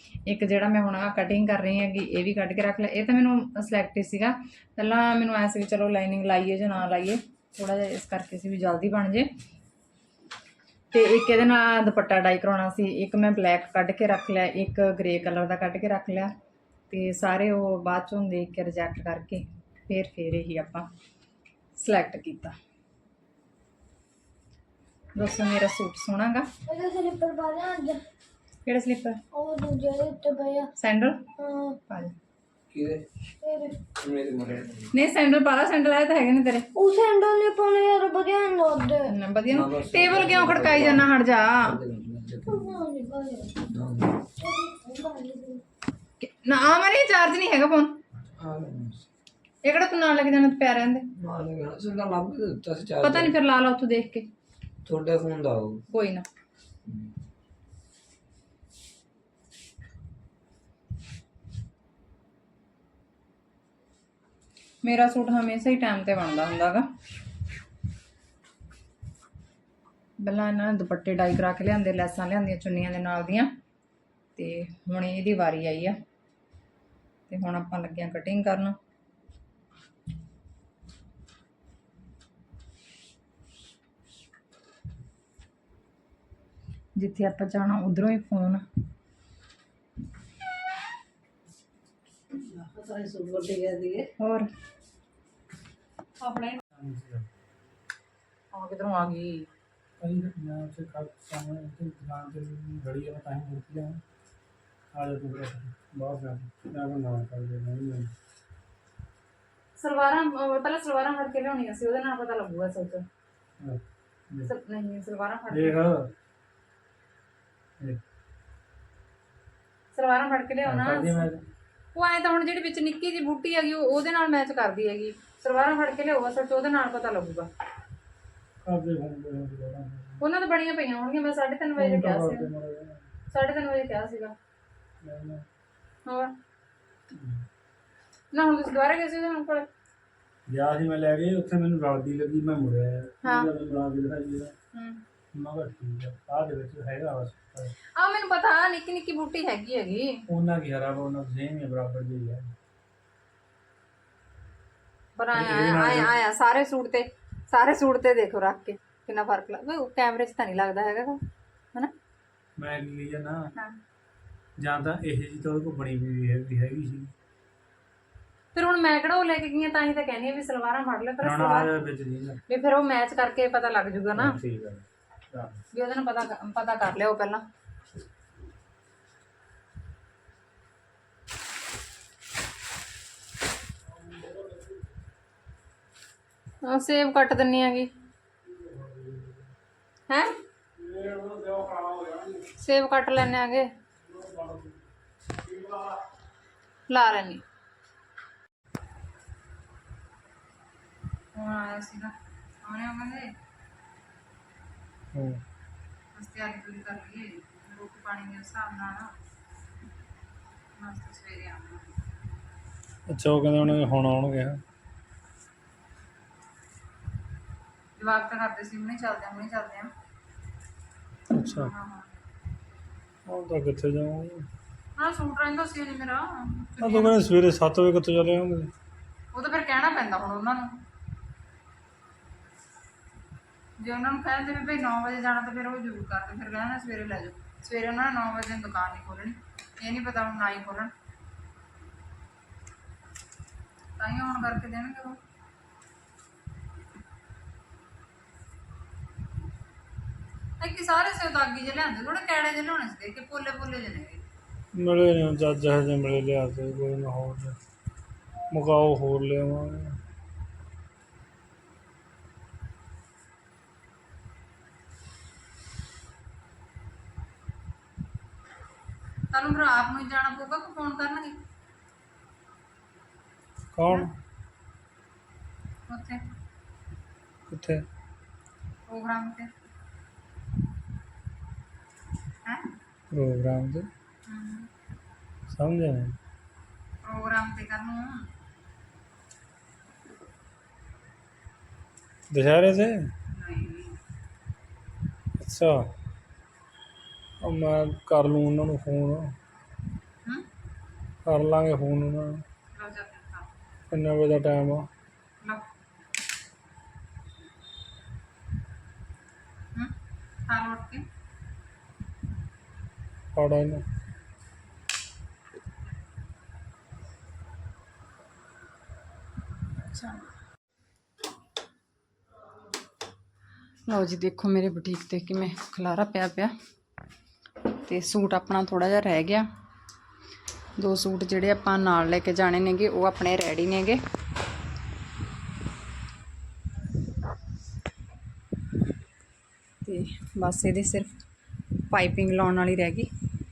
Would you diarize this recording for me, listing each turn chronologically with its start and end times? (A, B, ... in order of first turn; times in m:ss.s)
0:00.2-0:09.3 A
0:10.9-0:16.3 A
0:16.9-0:20.9 A
0:21.8-0:22.5 A
0:25.2-0:26.5 A
0:26.7-0:28.0 B
0:28.7-0:29.2 A
0:29.3-0:30.7 B
0:30.8-0:31.2 A
0:31.4-0:31.8 B
0:31.9-0:32.1 A
0:32.7-0:33.0 C
0:33.4-0:33.9 B
0:33.9-0:34.9 C
0:34.9-0:36.7 A
0:36.8-0:39.1 B
0:39.1-0:41.7 A
0:39.5-0:42.8 C
0:42.5-0:43.7 B
0:43.7-0:44.3 C
0:44.4-0:45.6 B
0:46.2-0:47.9 A
0:48.4-0:49.0 C
0:49.6-0:51.1 A
0:51.2-0:53.3 C
0:53.0-0:54.2 A
0:54.9-0:55.8 C
0:55.9-0:56.2 A
1:04.8-1:06.9 A
1:10.2-1:13.5 A
1:14.4-1:15.9 A
1:17.3-1:18.8 A
1:27.0-1:28.6 A
1:32.6-1:34.0 C
1:34.2-1:34.5 A
1:36.2-1:36.6 A
1:36.8-1:37.3 D
1:38.5-1:39.5 A
1:40.0-1:44.0 D
1:44.9-1:48.1 D
1:49.8-1:53.0 A
1:53.6-1:54.5 D
1:54.4-1:55.8 A
1:55.5-1:56.1 D
1:59.9-2:01.3 A
2:00.6-2:01.4 D
2:01.9-2:07.5 A
2:08.6-2:10.2 D
2:10.2-2:12.5 A
2:11.8-2:13.0 D
2:13.3-2:14.3 A
2:15.0-2:15.4 D
2:16.1-2:16.3 A
2:17.1-2:17.4 D
2:18.3-2:19.7 A
2:20.5-2:24.5 D
2:23.2-2:23.5 A
2:24.7-2:25.0 A
2:25.3-2:27.7 D
2:28.0-2:30.2 A
2:30.3-2:32.5 D
2:35.2-2:41.2 A
2:35.3-2:36.1 D
2:42.6-2:43.4 D
2:44.6-2:47.1 D
2:48.5-2:51.7 A
2:51.2-2:52.4 D
2:52.5-2:54.4 A
2:54.1-2:55.6 D
2:55.7-2:57.4 A
3:06.6-3:07.9 A
3:08.6-3:09.4 D
3:10.8-3:12.5 D
3:12.6-3:13.7 A
3:14.1-3:14.8 D
3:16.9-3:17.4 A
3:21.3-3:23.3 A
3:25.1-3:25.4 D
3:26.1-3:29.1 A
3:30.8-3:31.9 A
3:33.1-3:34.6 D
3:38.0-3:39.9 A
3:41.3-3:41.7 D
3:41.4-3:42.1 A
3:43.2-3:44.5 D
3:45.0-3:47.3 A
3:46.8-3:48.7 D
3:49.3-3:50.8 A
3:53.8-4:00.9 A
4:04.0-4:05.2 A
4:10.6-4:14.2 A
4:14.7-4:17.6 D
4:18.5-4:20.0 D
4:29.3-4:31.4 A
4:33.7-4:34.1 D
4:35.9-4:36.2 A
4:37.5-4:37.8 D
4:38.9-4:39.5 A
4:43.1-4:43.9 D
4:44.3-4:44.7 A
4:45.5-4:46.2 D
4:47.0-4:48.3 A
4:52.3-4:53.1 D
4:53.3-4:54.0 A
4:55.4-4:55.9 D
4:57.4-4:59.4 D
5:01.2-5:02.4 D
5:02.7-5:03.5 A
5:03.9-5:04.9 D
5:10.5-5:11.0 A
5:13.3-5:13.8 D
5:19.8-5:20.3 A
5:23.9-5:26.5 A
5:27.8-5:29.5 A
5:30.8-5:34.0 A
5:39.8-5:41.1 A
5:41.9-5:43.1 A